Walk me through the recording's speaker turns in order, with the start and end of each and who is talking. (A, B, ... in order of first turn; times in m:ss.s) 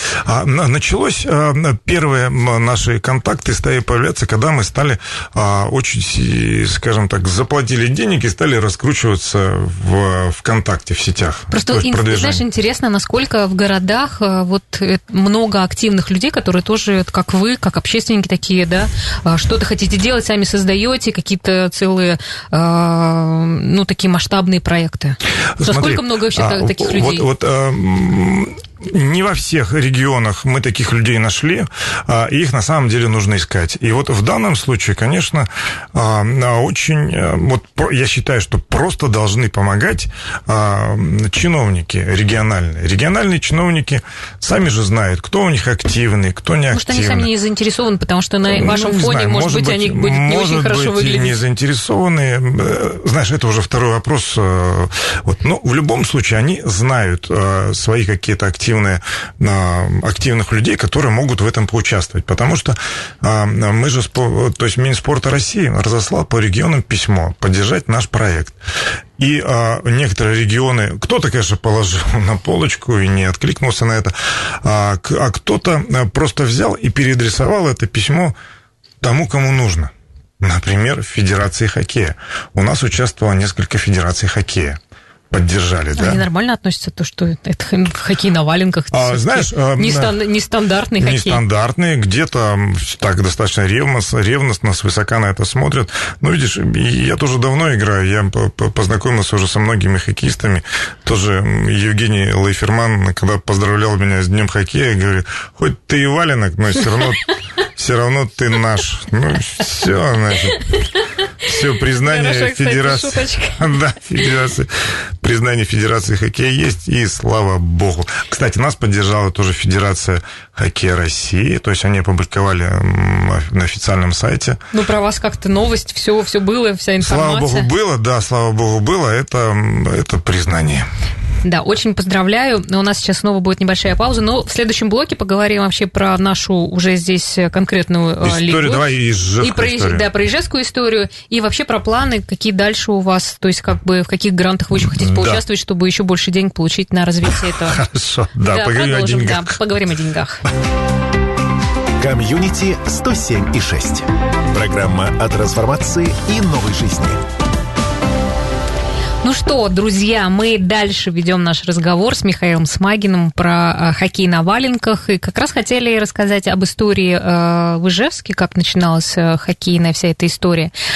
0:00.2-0:12.4 A
0:11.5-0:27.2 B
0:25.6-0:47.3 A
0:46.7-0:51.4 B
0:48.5-1:08.6 A
1:09.2-1:18.3 A
1:19.0-1:24.8 A
1:25.3-1:26.2 A
1:26.0-1:31.4 B
1:28.9-1:30.2 A
1:31.0-1:50.6 A
1:51.4-2:04.6 A
1:51.9-1:53.7 B
2:04.7-2:07.7 B
2:07.0-2:10.9 A
2:11.4-2:18.8 B
2:18.2-2:20.0 A
2:19.4-2:27.8 B
2:24.9-2:25.4 A
2:27.3-2:29.6 A
2:28.5-2:30.4 B
2:32.0-2:37.2 C
2:39.2-2:50.7 B